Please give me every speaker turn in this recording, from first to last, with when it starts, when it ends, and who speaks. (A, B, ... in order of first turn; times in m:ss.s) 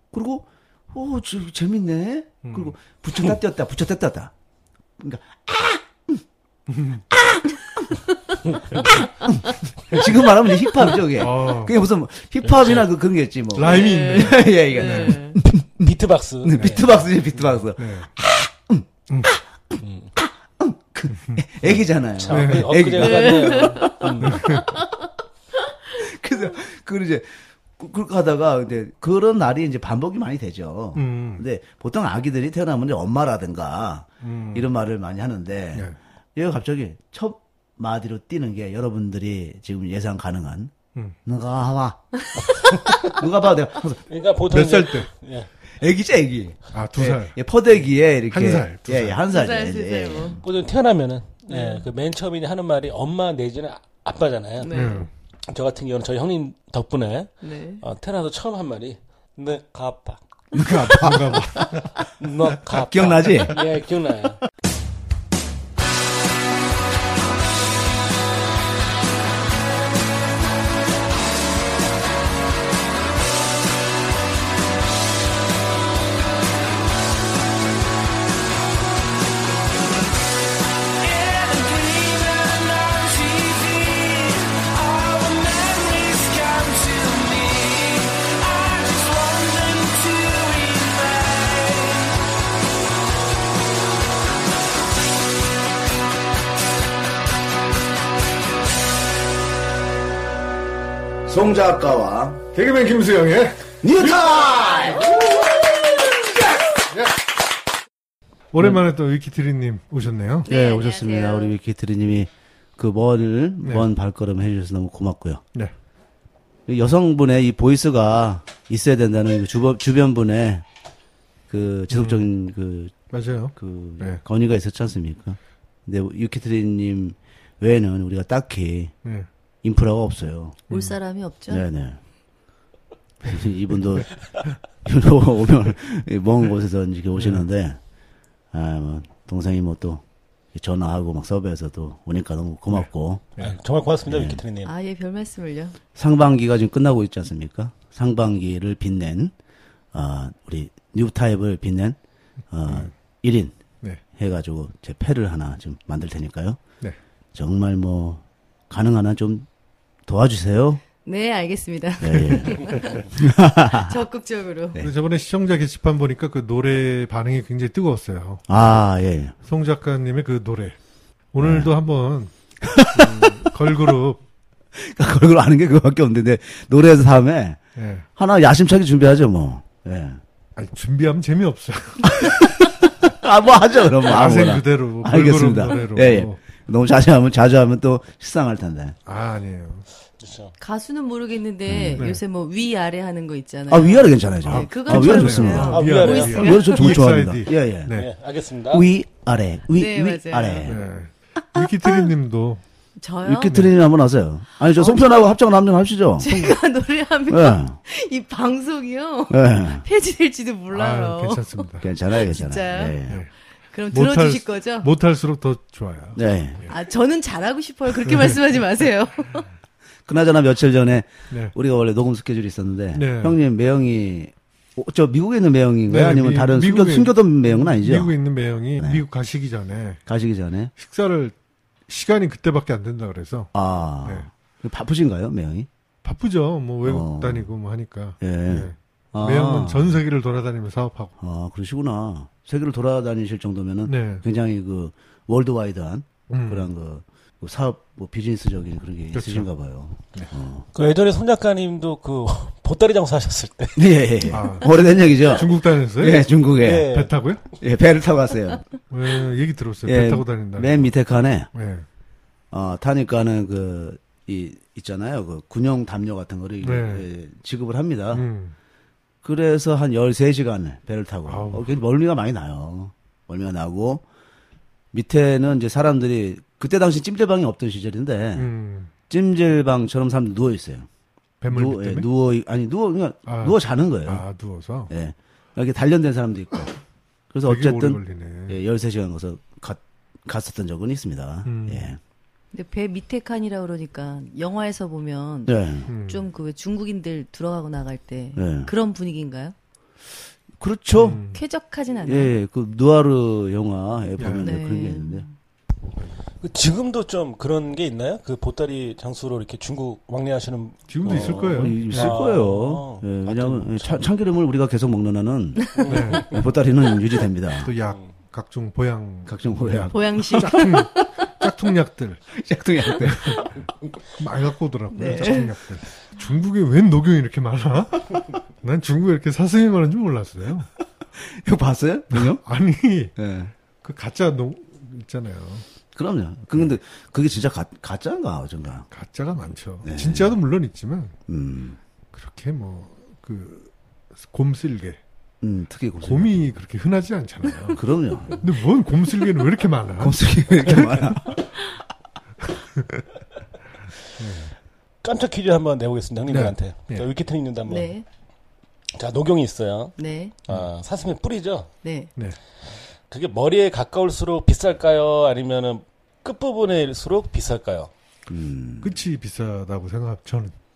0:00.1-0:04.3 A
0:02.4-0:02.8 B
0:05.0-0:06.2 A
0:06.7-0:07.0 B
0:07.1-0:08.0 A
0:08.7-0:24.6 A
0:11.2-0:11.8 B
0:12.4-0:12.9 C
0:13.6-0:15.2 B
0:13.6-0:15.4 D
0:15.8-0:17.6 C
0:17.8-0:18.1 B
0:19.1-0:19.3 B
0:19.8-0:20.1 C
0:22.2-0:24.6 C
0:22.3-0:22.8 B
0:23.0-0:25.0 D
0:24.2-0:24.7 B
0:26.0-0:40.7 A
0:31.0-0:31.4 B
0:34.2-0:34.7 B
0:41.2-0:42.3 A
0:42.9-0:44.0 A
0:44.1-0:45.5 C
0:44.5-0:45.1 B
0:45.8-0:50.4 A
0:46.7-0:47.4 B
0:48.3-0:49.2 B
0:49.3-0:50.4 D
0:50.4-0:54.9 C
0:51.5-0:51.8 D
0:54.6-0:55.0 D
0:54.7-0:55.1 B
0:55.5-1:00.2 C
0:57.4-0:57.8 D
1:00.5-1:02.0 A
1:00.5-1:01.9 B
1:02.2-1:04.4 C
1:02.7-1:03.6 A
1:21.0-1:32.2 C
1:41.2-1:42.4 A
1:42.5-1:45.6 B
1:43.8-1:45.6 A
1:48.5-1:50.5 B
1:50.4-1:51.6 D
1:50.5-1:55.4 A
1:53.6-1:53.9 B
1:56.7-2:00.6 A
2:01.5-2:03.0 A
2:01.9-2:02.3 B
2:03.1-2:04.2 B
2:03.6-2:08.9 A
2:09.6-2:10.6 A
2:10.7-2:11.7 D
2:10.7-2:11.0 B
2:11.5-2:12.0 A
2:13.2-2:14.1 A
2:14.8-2:17.8 A
2:17.2-2:17.5 B
2:18.5-2:20.0 A
2:20.5-2:23.3 A
2:22.7-2:23.5 B
2:23.4-2:24.7 C
2:24.1-2:24.4 A
2:24.6-2:25.8 D
2:26.0-2:29.3 A
2:29.9-2:32.0 A
2:32.5-2:33.6 A
2:34.2-2:36.6 A
2:37.3-2:39.5 A
2:40.1-2:40.8 A
2:41.0-2:43.1 D
2:42.0-2:44.0 A
2:43.7-2:44.8 D
2:44.8-2:48.8 B
2:48.5-2:49.4 A
2:49.4-2:50.8 B
2:51.3-2:52.3 B
2:51.4-2:51.8 A
2:52.6-2:53.9 A
2:52.9-2:54.2 B
2:54.8-2:57.6 A
2:57.8-2:58.1 B
2:58.2-3:00.2 A
3:00.6-3:02.9 B
3:02.1-3:09.0 A
3:04.0-3:06.4 B
3:09.1-3:09.9 B
3:10.2-3:10.5 C
3:10.6-3:16.8 D
3:11.7-3:12.0 A
3:12.0-3:12.2 B
3:13.7-3:18.0 A
3:14.4-3:18.1 B
3:15.7-3:16.6 C
3:17.9-3:18.9 C
3:18.7-3:20.8 A
3:19.7-3:20.7 D
3:20.7-3:22.6 B
3:23.0-3:23.7 D
3:23.2-3:26.3 A
3:24.6-3:25.2 D
3:26.2-3:33.0 D
3:27.3-3:27.8 A
3:29.3-3:29.8 A
3:30.7-3:31.9 B
3:31.8-3:33.2 A
3:33.7-3:34.9 D
3:33.9-3:36.7 B
3:36.2-3:36.7 A
3:36.7-3:39.4 D
3:38.0-3:38.4 B
3:40.1-3:48.2 A
3:42.9-3:43.4 B
3:45.9-3:50.0 B
3:50.1-3:50.7 A
3:50.8-3:51.4 B
3:51.9-3:53.5 B
3:53.5-3:55.7 A
3:54.0-3:54.3 B
3:56.0-4:01.1 B
3:56.8-3:57.5 A
3:58.2-4:00.0 A
4:01.2-4:10.7 A
4:03.8-4:04.2 B
4:06.3-4:06.7 B
4:09.1-4:09.5 B
4:10.7-4:13.9 C
4:13.8-4:17.0 A
4:14.3-4:16.3 B
4:16.6-4:17.1 C
4:16.8-4:17.4 B
4:17.6-4:18.7 A
4:18.9-4:20.9 B
4:19.8-4:21.5 A
4:21.5-4:21.9 B
4:22.5-4:28.3 A
4:26.6-4:27.1 B
4:28.1-4:28.5 B
4:29.2-4:34.0 A
4:31.3-4:31.7 B
4:34.9-4:38.5 A
4:38.4-4:38.9 B
4:39.1-4:40.9 A
4:41.4-4:42.1 B
4:41.5-4:44.2 A
4:43.3-4:44.9 B
4:44.9-4:46.8 A
4:47.3-4:52.0 A
4:47.5-4:48.6 B
4:51.5-4:51.9 B
4:52.5-4:59.5 D
4:55.5-4:55.9 A
4:55.9-4:56.2 B
4:58.4-4:58.7 A
5:00.6-5:01.2 A
5:00.9-5:01.4 B
5:01.3-5:02.3 D
5:02.0-5:05.3 A
5:04.2-5:04.5 B
5:04.4-5:05.3 D
5:06.4-5:14.1 C
5:10.9-5:12.2 B
5:11.1-5:17.7 A
5:15.8-5:16.4 C
5:15.9-5:16.4 B
5:17.6-5:22.2 B
5:19.3-5:19.9 A
5:19.9-5:21.1 D
5:22.3-5:23.5 A
5:23.1-5:23.4 B
5:24.2-5:30.7 B
5:24.9-5:25.5 D
5:25.0-5:25.4 A
5:31.2-5:32.4 A
5:32.1-5:33.1 B
5:33.2-5:33.5 A
5:33.8-5:35.6 B
5:35.9-5:38.9 A
5:38.9-5:41.2 B
5:39.8-5:40.4 A
5:41.3-5:41.8 A
5:42.1-5:45.0 B
5:45.4-5:46.4 A
5:46.0-5:51.4 B
5:47.8-5:48.4 A
5:50.0-5:51.4 A
5:52.4-5:53.0 B
5:54.2-5:54.5 B
5:55.0-5:57.9 C
5:56.3-5:57.1 B
5:57.7-5:58.0 D
5:59.0-6:00.0 C
6:00.0-6:00.3 D
6:00.5-6:01.7 C
6:01.8-6:02.1 D
6:03.1-6:07.9 C
6:08.3-6:09.0 A
6:08.8-6:10.5 B